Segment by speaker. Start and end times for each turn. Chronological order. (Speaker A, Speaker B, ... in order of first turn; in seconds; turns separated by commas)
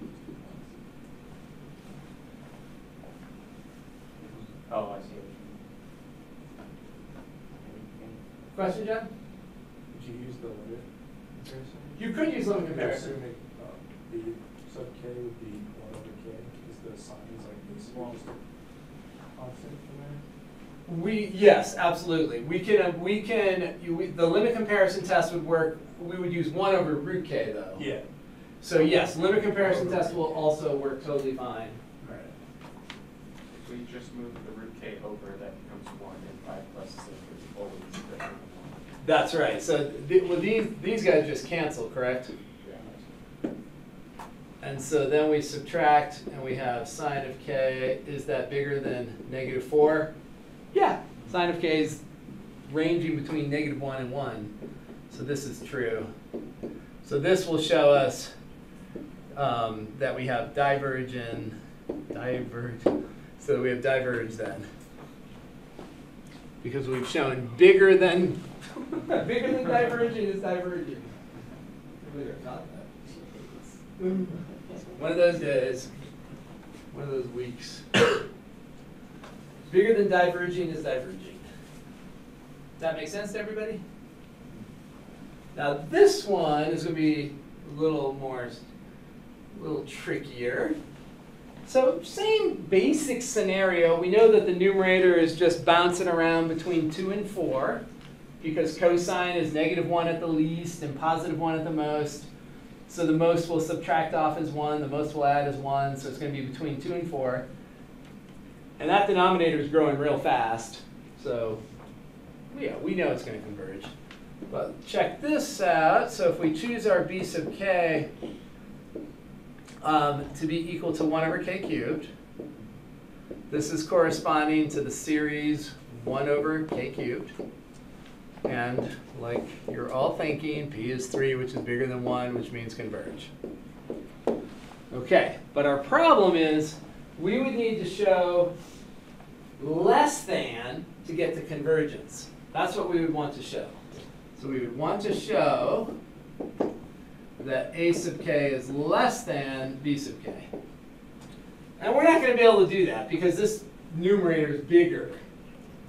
Speaker A: 4.7-5.6, Speaker A: 7.5-8.3, Speaker B: 8.5-9.1, Speaker C: 10.0-10.8, Speaker D: 11.4-11.9, Speaker B: 12.0-13.1, Speaker C: 13.0-13.5, Speaker C: 14.9-15.4, Speaker C: 15.9-18.2, Speaker D: 17.7-18.2, Speaker D: 19.4-20.2, Speaker B: 20.9-27.9, Speaker B: 28.6-32.3, Speaker D: 33.5-38.8, Speaker B: 39.0-42.3, Speaker D: 42.6-43.0, Speaker B: 44.6-50.1, Speaker B: 50.7-52.0, Speaker B: 52.7-54.5, Speaker B: 55.1-56.1, Speaker B: 57.0-58.3, Speaker B: 59.4-61.6, Speaker B: 62.1-64.7, Speaker B: 66.6-71.1, Speaker B: 72.0-72.9, Speaker A: 73.1-73.6, Speaker B: 74.0-74.3, Speaker B: 74.9-75.9, Speaker B: 76.9-78.2, Speaker B: 79.7-81.5, Speaker B: 82.8-83.8, Speaker B: 85.5-88.6, Speaker B: 89.5-90.8, Speaker B: 91.7-97.8, Speaker B: 98.4-102.3, Speaker B: 102.9-107.5, Speaker B: 108.8-111.6, Speaker B: 112.5-113.9, Speaker B: 114.5-118.1, Speaker B: 119.8-122.1, Speaker B: 123.5-127.3, Speaker B: 128.4-133.3, Speaker B: 134.9-138.5, Speaker B: 139.6-143.8, Speaker B: 144.4-145.9, Speaker B: 147.4-150.5, Speaker B: 151.8-155.2